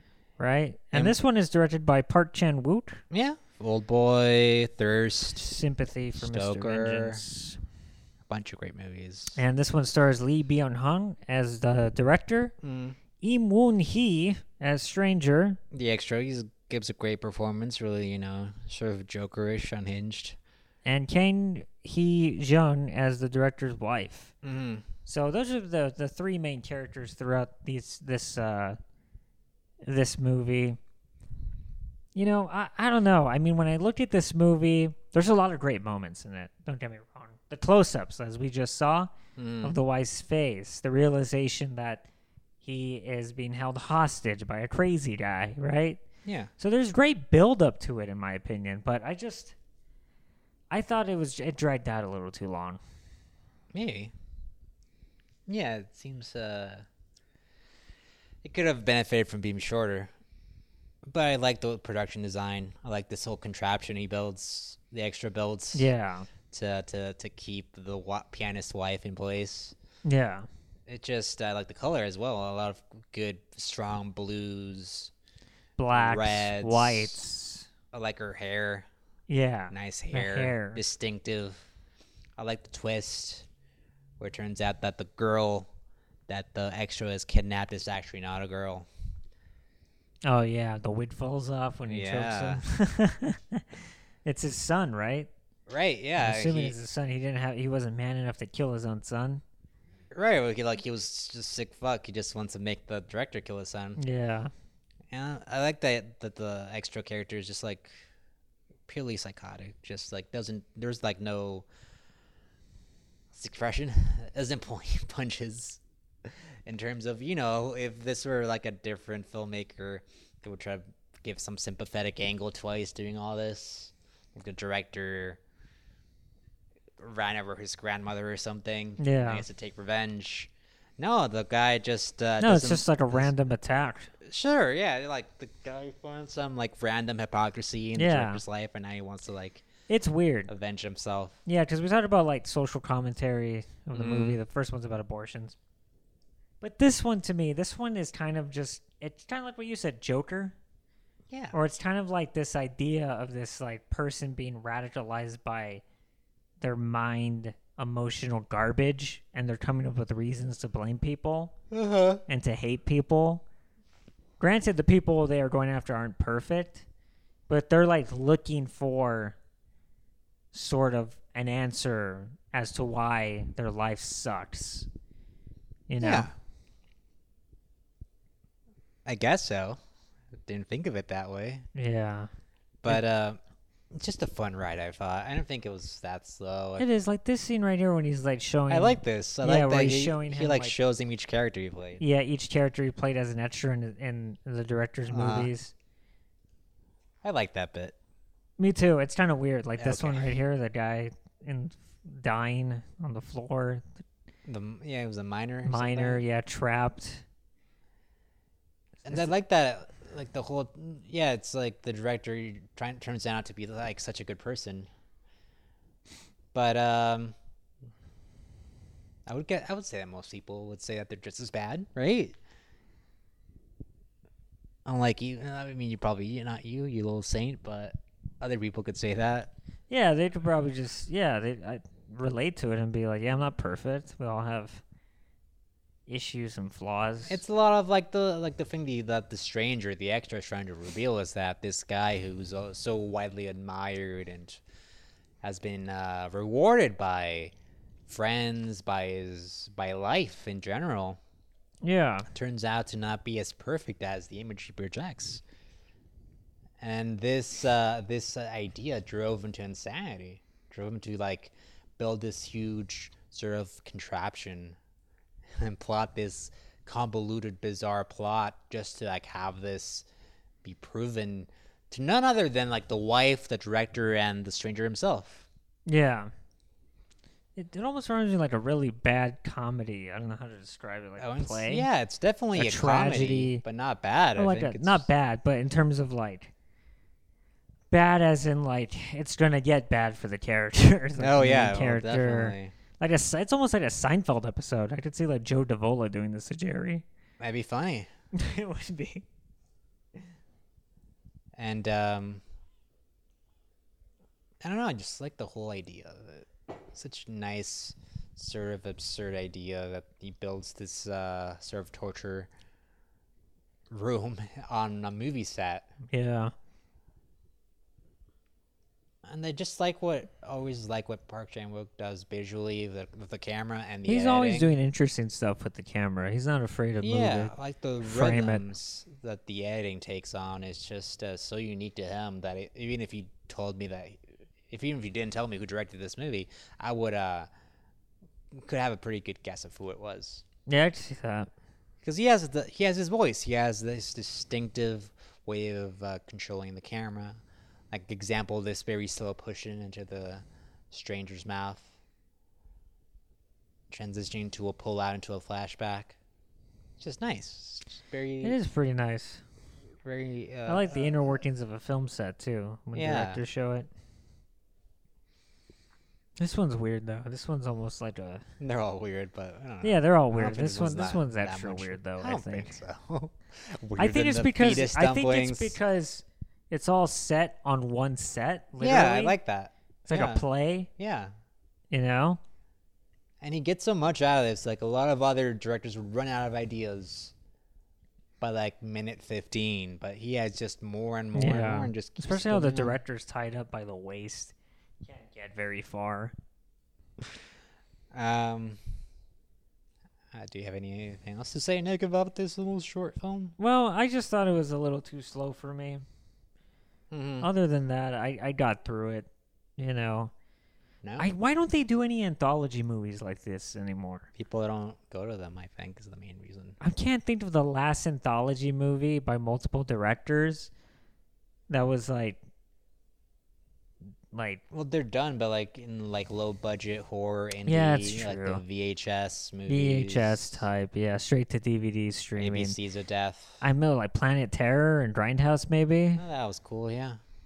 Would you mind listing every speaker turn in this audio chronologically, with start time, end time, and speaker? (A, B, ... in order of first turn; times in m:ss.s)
0:00.4-0:03.0 A
0:03.1-0:05.5 B
0:05.4-0:07.6 A
0:06.2-0:07.2 B
0:08.3-0:09.4 B
0:09.4-0:12.5 A
0:12.6-0:13.0 B
0:13.2-0:15.6 A
0:15.7-0:20.4 B
0:20.8-0:24.3 A
0:24.4-0:24.9 B
0:25.1-0:28.8 A
0:29.8-0:30.8 A
0:32.2-0:39.1 A
0:39.4-0:39.8 B
0:39.6-0:42.1 A
0:42.6-0:46.0 A
0:46.2-0:46.5 B
0:46.6-0:49.6 A
0:50.7-0:52.8 A
0:53.7-0:54.1 B
0:55.5-0:56.9 B
0:58.4-1:00.1 B
1:01.1-1:05.9 B
1:05.7-1:06.3 A
1:06.5-1:09.8 B
1:10.0-1:10.5 A
1:10.9-1:15.1 B
1:15.8-1:17.7 A
1:15.9-1:17.2 B
1:17.9-1:18.9 B
1:19.3-1:20.8 A
1:19.7-1:21.7 B
1:22.4-1:23.5 B
1:24.2-1:25.7 B
1:26.3-1:28.9 B
1:30.2-1:35.3 A
1:31.8-1:32.6 B
1:35.7-1:36.8 B
1:36.2-1:39.4 A
1:40.1-1:44.0 B
1:44.0-1:44.5 A
1:45.1-1:48.1 B
1:48.9-1:51.7 B
1:53.3-2:05.4 B
2:07.0-2:13.3 B
2:09.0-2:09.4 A
2:12.4-2:14.1 A
2:14.2-2:19.6 B
2:18.0-2:18.4 A
2:19.9-2:20.5 A
2:20.5-2:21.4 B
2:21.5-2:25.6 A
2:23.9-2:24.4 B
2:26.6-2:30.6 A
2:31.3-2:31.6 B
2:31.5-2:35.8 A
2:36.6-2:41.6 A
2:41.7-2:42.2 B
2:42.3-2:43.4 A
2:44.4-2:46.8 A
2:47.5-2:49.4 A
2:50.5-2:54.9 A
2:55.9-2:56.3 A
2:56.0-2:56.3 B
2:59.0-2:59.8 B
3:00.4-3:01.7 B
3:01.8-3:02.3 A
3:02.8-3:03.4 B
3:03.9-3:06.8 B
3:06.8-3:10.8 A
3:08.7-3:12.0 B
3:12.0-3:15.7 A
3:15.1-3:15.5 B
3:17.2-3:18.0 B
3:18.6-3:23.9 A
3:19.8-3:20.3 B
3:24.5-3:26.2 B
3:25.6-3:27.2 A
3:29.0-3:34.9 B
3:36.5-3:37.4 B
3:39.3-3:42.4 B
3:44.8-3:49.5 B
3:49.9-3:54.8 A
3:56.1-3:57.4 A
3:57.3-4:04.6 B
4:05.4-4:07.5 B
4:08.1-4:11.2 B
4:11.8-4:12.3 A
4:12.3-4:15.4 B
4:16.8-4:24.8 B
4:25.6-4:30.1 B
4:30.6-4:35.5 B
4:35.9-4:36.3 A
4:37.6-4:41.9 A
4:41.2-4:45.1 B
4:42.6-4:43.6 A
4:44.4-4:46.5 A
4:47.9-4:57.0 A
4:51.2-4:52.7 B
4:57.4-4:58.1 B
4:58.3-4:59.2 A
5:01.6-5:02.4 B
5:04.6-5:12.5 B
5:13.9-5:15.9 B
5:16.1-5:16.5 A
5:19.2-5:24.7 B
5:24.1-5:28.6 A
5:27.0-5:37.5 B
5:38.5-5:40.4 B
5:40.7-5:41.5 A
5:42.0-5:47.4 B
5:47.9-5:51.9 B
5:53.9-5:56.2 B
5:57.0-5:58.6 B
5:58.4-5:59.4 A
6:00.0-6:01.4 B
6:00.7-6:03.9 A
6:03.0-6:03.4 B
6:06.4-6:08.4 A
6:08.6-6:15.8 B
6:09.8-6:12.8 A
6:14.0-6:19.4 A
6:18.8-6:20.5 B
6:20.1-6:20.9 A
6:21.0-6:21.3 B
6:21.9-6:22.4 A
6:23.4-6:27.3 B
6:28.4-6:33.0 B
6:31.4-6:36.4 A
6:38.1-6:38.8 B
6:40.3-6:43.6 B
6:43.6-6:46.0 A
6:47.1-6:47.5 B
6:47.4-6:50.3 A
6:51.0-6:51.3 B
6:51.2-6:54.3 A
6:54.4-6:56.8 B
6:56.8-7:00.7 A
7:01.7-7:02.4 A
7:04.3-7:04.6 A
7:04.7-7:10.6 B
7:07.7-7:08.6 A
7:09.7-7:12.8 A
7:12.4-7:13.6 B
7:13.6-7:16.2 A
7:16.2-7:17.2 B